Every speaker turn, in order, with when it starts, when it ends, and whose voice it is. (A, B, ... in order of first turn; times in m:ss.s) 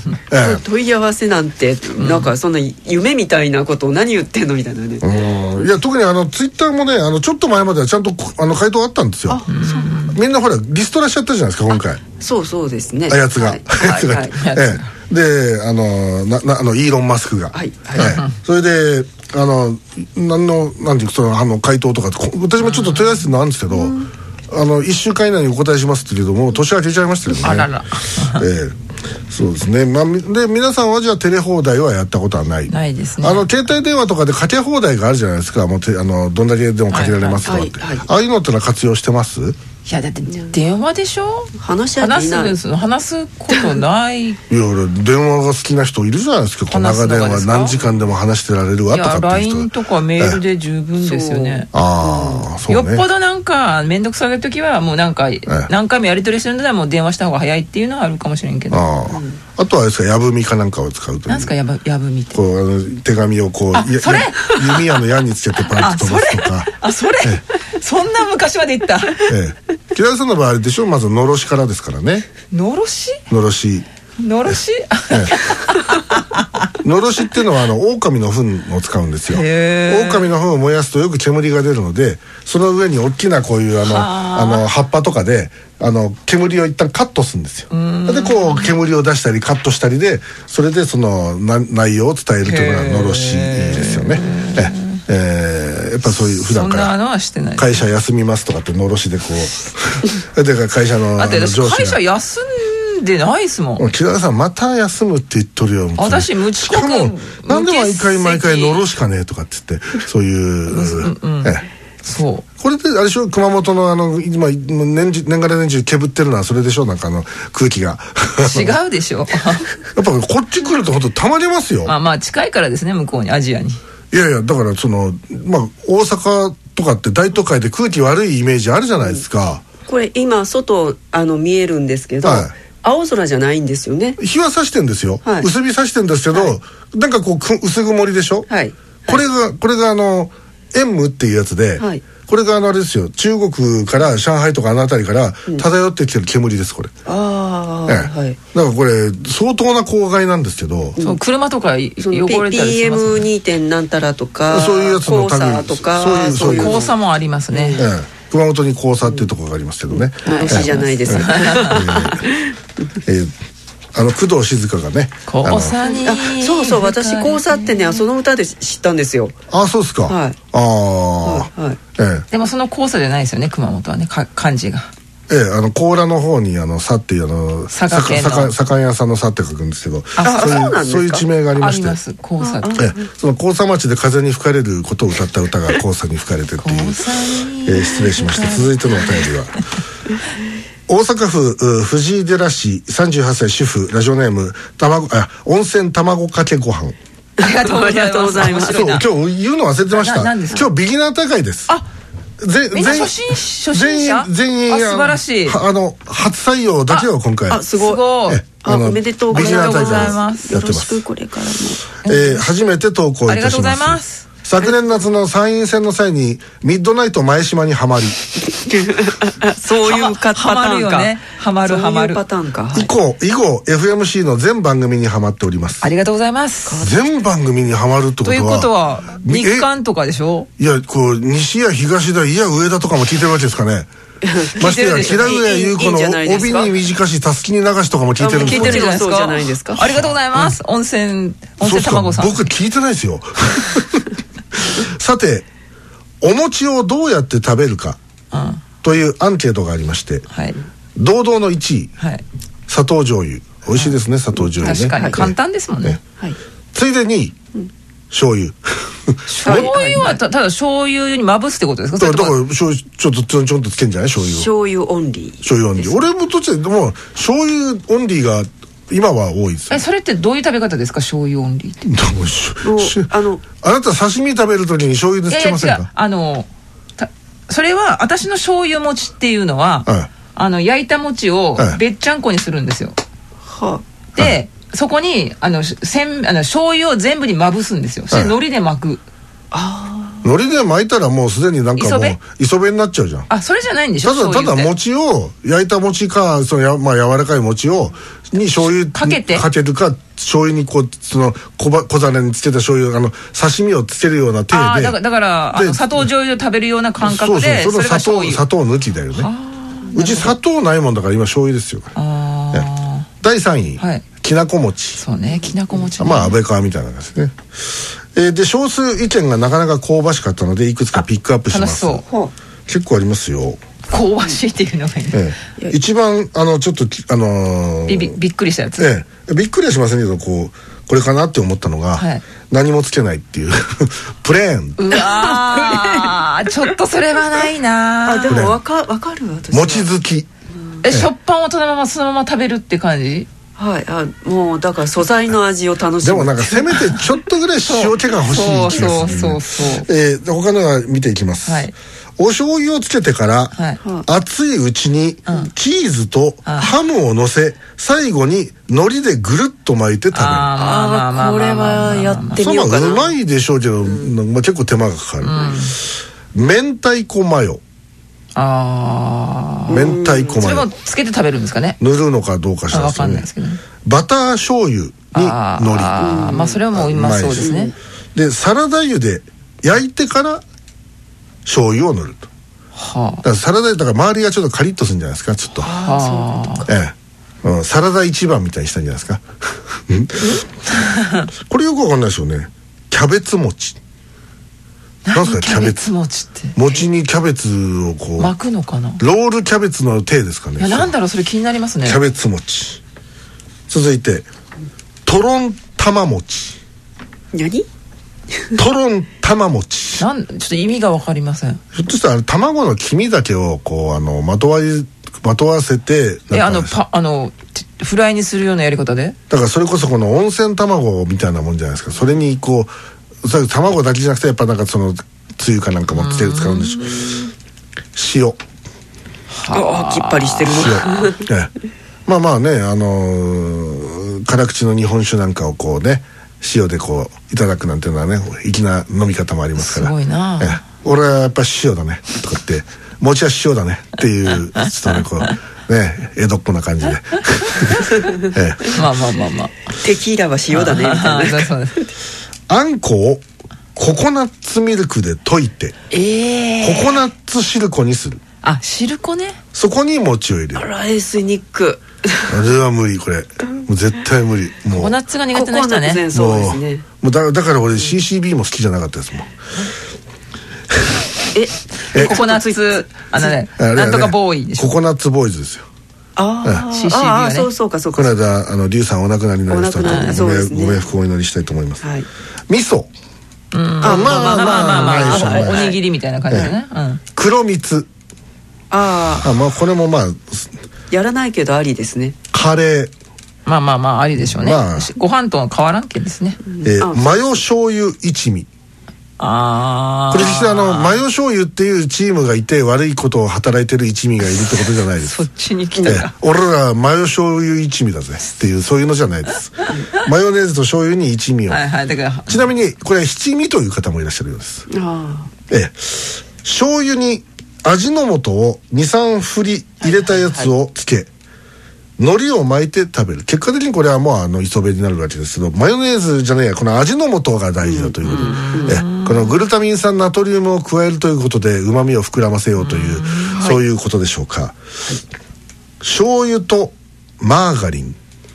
0:00.3-0:00.6 A
0:00.3-0:05.1 B
0:02.0-0:02.3 C
0:05.0-0:09.4 A
0:09.3-0:10.1 B
0:09.5-0:10.2 C
0:10.1-0:12.0 A
0:12.2-0:14.4 B
0:13.1-0:24.0 A
0:14.3-0:14.9 C
0:17.5-0:18.2 B
0:18.0-0:18.3 C
0:22.6-0:23.2 C
0:23.7-0:24.1 B
0:24.5-0:28.8 A
0:27.4-0:28.4 C
0:29.3-0:39.6 A
0:32.7-0:33.5 C
0:36.9-0:37.5 C
0:37.4-0:38.1 B
0:39.9-0:44.4 C
0:40.3-0:40.6 B
0:41.6-0:42.6 B
0:44.5-0:50.4 A
0:46.7-0:47.8 C
0:48.9-0:51.7 C
0:51.0-0:52.4 B
0:51.7-0:53.0 A
0:52.7-0:58.8 C
0:58.7-1:01.5 A
0:59.1-0:59.4 B
1:01.3-1:02.4 C
1:02.3-1:06.7 A
1:03.7-1:04.9 C
1:05.7-1:09.3 C
1:09.2-1:12.3 A
1:12.5-1:13.2 C
1:13.3-1:13.9 A
1:14.2-1:16.4 C
1:15.1-1:15.4 A
1:16.8-1:36.9 A
1:19.3-1:20.3 C
1:23.8-1:24.7 C
1:27.7-1:28.7 C
1:32.4-1:35.0 C
1:36.1-1:37.9 C
1:37.6-1:42.0 A
1:41.2-1:43.9 C
1:43.8-1:51.6 A
1:46.0-1:48.8 C
1:50.7-1:52.4 C
1:52.6-1:58.8 A
1:58.4-1:59.7 C
1:59.9-2:01.9 A
2:01.9-2:03.8 C
2:04.1-2:09.6 A
2:09.9-2:14.2 B
2:12.2-2:12.5 A
2:14.2-2:18.5 A
2:18.5-2:19.2 B
2:19.1-2:26.9 A
2:21.8-2:22.0 B
2:27.1-2:28.4 B
2:27.9-2:31.0 A
2:31.0-2:33.2 C
2:32.0-2:36.9 B
2:34.5-2:36.8 A
2:36.3-2:37.9 C
2:37.5-2:37.9 B
2:37.8-2:42.3 A
2:39.9-2:42.5 B
2:40.2-2:41.9 C
2:43.0-2:43.3 A
2:43.9-2:45.8 A
2:45.3-2:48.0 C
2:45.8-2:49.4 B
2:49.5-2:52.3 A
2:50.1-2:50.4 B
2:51.2-2:51.8 B
2:52.3-2:54.9 C
2:55.3-3:02.0 A
2:57.7-2:58.5 C
3:00.2-3:00.7 C
3:00.2-3:01.3 B
3:01.6-3:02.8 C
3:02.4-3:03.1 B
3:02.8-3:07.0 A
3:06.6-3:09.2 C
3:07.6-3:09.6 A
3:10.9-3:17.0 A
3:17.4-3:18.9 B
3:17.4-3:19.1 C
3:18.4-3:21.7 A
3:19.9-3:20.6 C
3:22.4-3:27.6 A
3:22.7-3:25.6 C
3:27.5-3:32.0 B
3:27.7-3:28.4 C
3:28.3-3:31.0 A
3:29.3-3:30.5 C
3:32.0-3:38.2 A
3:32.1-3:32.4 C
3:33.3-3:34.2 C
3:34.6-3:34.9 B
3:38.4-3:42.9 B
3:39.8-3:42.2 C
3:42.7-3:45.9 A
3:45.8-3:46.8 C
3:46.7-3:47.0 B
3:46.8-3:49.7 A
3:48.2-3:50.5 C
3:50.6-3:53.9 A
3:54.2-3:56.8 B
3:54.6-3:55.4 C
3:54.6-3:58.9 A
3:58.2-3:59.9 B
3:58.4-4:02.4 C
3:59.8-4:00.6 A
4:01.6-4:05.5 A
4:06.2-4:08.0 A
4:08.3-4:08.6 C
4:08.8-4:10.3 A
4:10.3-4:10.6 C
4:11.0-4:11.9 A
4:12.7-4:16.0 A
4:14.6-4:16.0 C
4:14.7-4:15.2 B
4:16.7-4:17.4 A
4:18.1-4:19.7 A
4:19.3-4:22.4 C
4:19.4-4:20.2 B
4:22.0-4:24.5 A
4:24.2-4:26.0 B
4:25.4-4:29.8 A
4:29.7-4:32.0 C
4:31.9-4:35.9 A
4:32.6-4:33.4 B
4:35.3-4:43.0 C
4:43.5-4:43.8 B
4:44.2-4:49.0 C
4:49.5-4:50.3 B
4:50.2-4:53.3 A
4:51.8-4:52.2 C
4:53.3-4:54.7 C
4:54.0-5:05.0 A
4:58.9-4:59.5 C
5:04.5-5:08.4 C
5:05.5-5:06.1 A
5:07.0-5:09.3 A
5:09.1-5:10.4 C
5:09.9-5:12.0 A
5:12.0-5:13.1 C
5:13.2-5:15.0 A
5:13.8-5:14.0 C
5:15.0-5:16.4 C
5:16.0-5:22.1 A
5:21.0-5:22.0 C
5:22.7-5:23.6 A
5:23.9-5:25.3 C
5:25.1-5:28.1 A
5:27.9-5:28.9 C
5:28.8-5:34.8 A
5:32.0-5:32.2 C
5:34.8-5:38.4 C
5:34.9-5:36.1 B
5:38.0-5:39.9 B
5:38.3-5:38.6 A
5:39.5-5:40.3 A
5:40.8-5:43.3 C
5:43.6-5:46.8 B
5:46.0-5:53.5 A
5:47.7-5:49.9 C
5:48.7-5:49.1 B
5:51.4-5:51.7 C
5:53.5-5:53.8 C
5:54.0-6:00.5 A
5:56.5-5:56.8 C
6:00.1-6:02.4 C
6:00.6-6:03.1 B
6:02.4-6:07.6 A
6:03.8-6:04.1 B
6:05.2-6:05.8 C
6:08.4-6:11.8 C
6:09.7-6:10.4 B
6:09.7-6:10.7 A
6:11.8-6:13.3 A
6:12.7-6:13.6 C
6:13.8-6:16.0 A
6:15.1-6:17.7 C
6:16.0-6:16.6 B
6:16.7-6:17.5 A
6:17.4-6:17.7 B
6:18.2-6:20.4 A
6:21.4-6:22.3 A
6:22.8-6:23.2 C
6:23.2-6:25.7 A
6:25.6-6:26.7 B
6:25.7-6:26.7 C
6:26.7-6:30.4 A
6:30.2-6:31.3 C
6:31.4-6:33.8 A
6:35.1-6:36.6 C
6:35.1-6:35.8 A
6:36.6-6:38.3 A
6:38.2-6:39.0 C
6:39.0-6:40.9 A
6:40.6-6:42.0 C
6:41.8-6:42.8 A
6:43.7-6:44.3 A
6:45.0-6:46.6 A
6:47.3-6:47.7 B
6:48.6-6:50.0 A
6:50.0-6:51.6 C
6:51.7-6:56.7 A
6:56.3-6:59.2 C
6:59.3-7:07.0 A
7:05.9-7:07.3 C
7:08.0-7:08.4 A
7:09.3-7:11.1 C
7:09.5-7:11.2 B
7:10.5-7:11.5 A
7:12.1-7:28.8 A
7:19.6-7:20.6 C
7:24.6-7:25.0 C
7:28.7-7:29.7 C
7:29.8-7:31.9 B
7:30.5-7:31.8 C
7:32.5-7:33.2 A
7:33.8-7:35.8 A
7:35.9-7:37.0 C
7:36.6-7:38.2 A
7:38.4-7:39.4 C
7:39.5-7:40.7 A
7:40.6-7:42.3 B
7:42.3-7:45.0 A
7:44.8-7:46.1 C
7:45.3-7:46.9 B
7:46.1-7:49.3 A
7:51.3-7:53.3 B
7:51.9-7:52.2 A
7:52.0-7:54.8 C
7:53.6-7:55.7 A
7:56.2-7:58.2 B
7:56.7-7:57.5 C
7:58.0-8:01.8 A
7:59.5-8:00.9 B
7:59.8-8:00.2 C
8:01.8-8:02.1 B
8:02.5-8:02.9 A
8:03.5-8:07.0 C
8:03.8-8:05.8 A
8:03.8-8:05.8 B
8:07.2-8:07.9 A
8:08.7-8:09.4 B
8:09.2-8:10.5 A
8:10.9-8:12.2 B
8:12.3-8:12.9 A
8:13.5-8:16.4 C
8:14.2-8:14.9 A
8:16.5-8:17.4 B
8:16.6-8:18.5 A
8:19.2-8:21.0 C
8:20.1-8:25.2 A
8:25.0-8:26.1 C
8:25.8-8:31.6 A
8:31.5-8:32.5 C
8:32.3-8:34.7 A
8:34.7-8:35.3 B
8:35.5-8:41.1 A
8:42.0-8:54.6 A
8:47.6-8:48.8 B
8:48.1-8:49.4 C
8:52.6-8:53.4 C
8:53.3-8:53.6 B
8:55.8-8:58.0 A